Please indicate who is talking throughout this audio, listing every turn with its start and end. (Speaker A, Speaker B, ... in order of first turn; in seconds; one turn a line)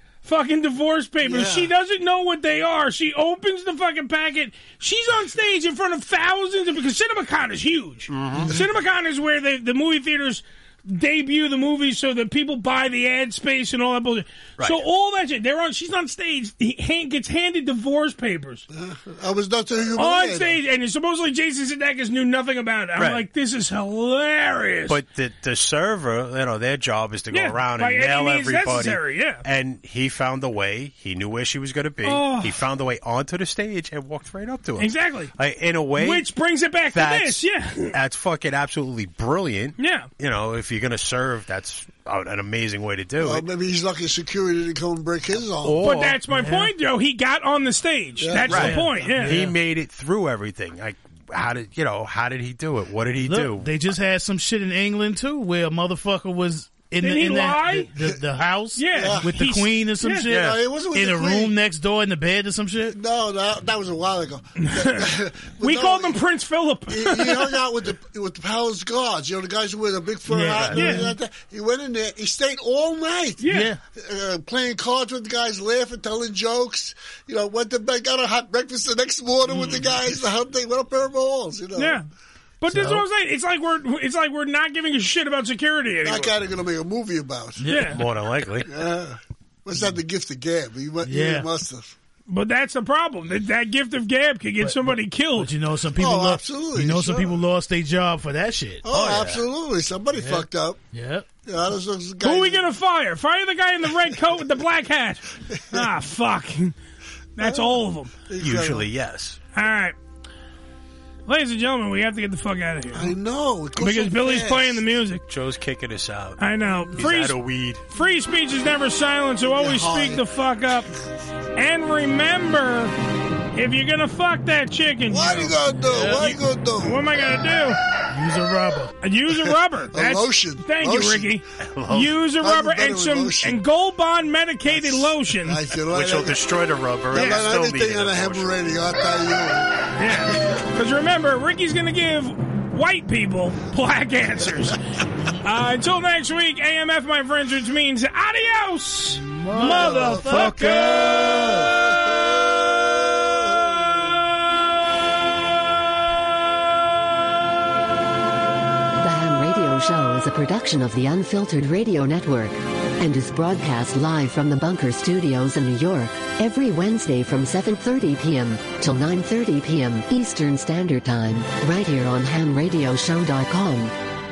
Speaker A: 0.2-18.6
Speaker B: 1.2-1.7
Speaker C: 8.1-8.5
Speaker B: 8.4-8.6
Speaker C: 14.6-14.8
Speaker B: 18.7-20.6
Speaker A: 19.9-25.0
Speaker C: 23.0-23.2
Speaker C: 24.9-36.3
Speaker A: 27.3-29.4
Speaker A: 32.0-32.6
Speaker A: 34.8-35.3
Speaker A: 36.0-37.9
Speaker C: 36.9-43.4
Speaker A: 39.8-40.1
Speaker B: 43.2-45.8
Speaker C: 45.6-46.2
Speaker A: 45.8-49.4
Speaker D: 46.3-46.7
Speaker B: 48.2-49.1
Speaker C: 48.5-53.7
Speaker D: 48.5-49.5
Speaker D: 53.2-63.0
Speaker A: 57.0-57.9
Speaker A: 58.8-60.3
Speaker B: 58.9-59.3
Speaker B: 60.3-61.5
Speaker C: 60.3-60.6
Speaker B: 62.9-66.2
Speaker A: 64.6-67.5
Speaker B: 66.9-82.0
Speaker D: 70.3-71.0
Speaker C: 70.4-70.8
Speaker A: 70.7-71.1
Speaker A: 73.4-73.7
Speaker D: 73.5-73.8
Speaker A: 81.8-82.0
Speaker A: 82.6-86.3
Speaker D: 82.7-83.0
Speaker B: 86.0-87.7
Speaker D: 87.6-87.9
Speaker A: 87.7-88.0
Speaker C: 87.9-88.7
Speaker B: 88.7-91.9
Speaker D: 91.0-91.5
Speaker A: 92.3-95.5
Speaker D: 94.6-99.3
Speaker B: 96.0-97.4
Speaker B: 98.8-100.8
Speaker C: 99.1-99.4
Speaker D: 100.1-101.3
Speaker B: 101.4-102.7
Speaker A: 102.2-106.7
Speaker B: 105.5-105.8
Speaker A: 107.4-108.1
Speaker B: 107.4-108.9
Speaker C: 108.4-109.4
Speaker A: 109.5-110.0
Speaker A: 111.3-113.1
Speaker B: 112.9-114.8
Speaker A: 113.8-115.2
Speaker C: 115.3-117.8
Speaker A: 116.4-117.4
Speaker A: 117.9-120.9
Speaker B: 119.5-120.2
Speaker A: 121.5-122.9
Speaker A: 123.5-127.8
Speaker B: 125.1-127.0
Speaker D: 125.9-126.4
Speaker D: 128.1-128.9
Speaker A: 129.0-135.6
Speaker B: 129.9-131.3
Speaker C: 131.6-132.2
Speaker B: 132.4-133.6
Speaker B: 134.7-136.4
Speaker C: 135.9-138.6
Speaker B: 137.1-140.5
Speaker A: 137.1-137.4
Speaker A: 139.9-144.8
Speaker A: 145.4-151.5
Speaker B: 149.4-154.0
Speaker D: 149.5-150.9
Speaker E: 159.0-173.9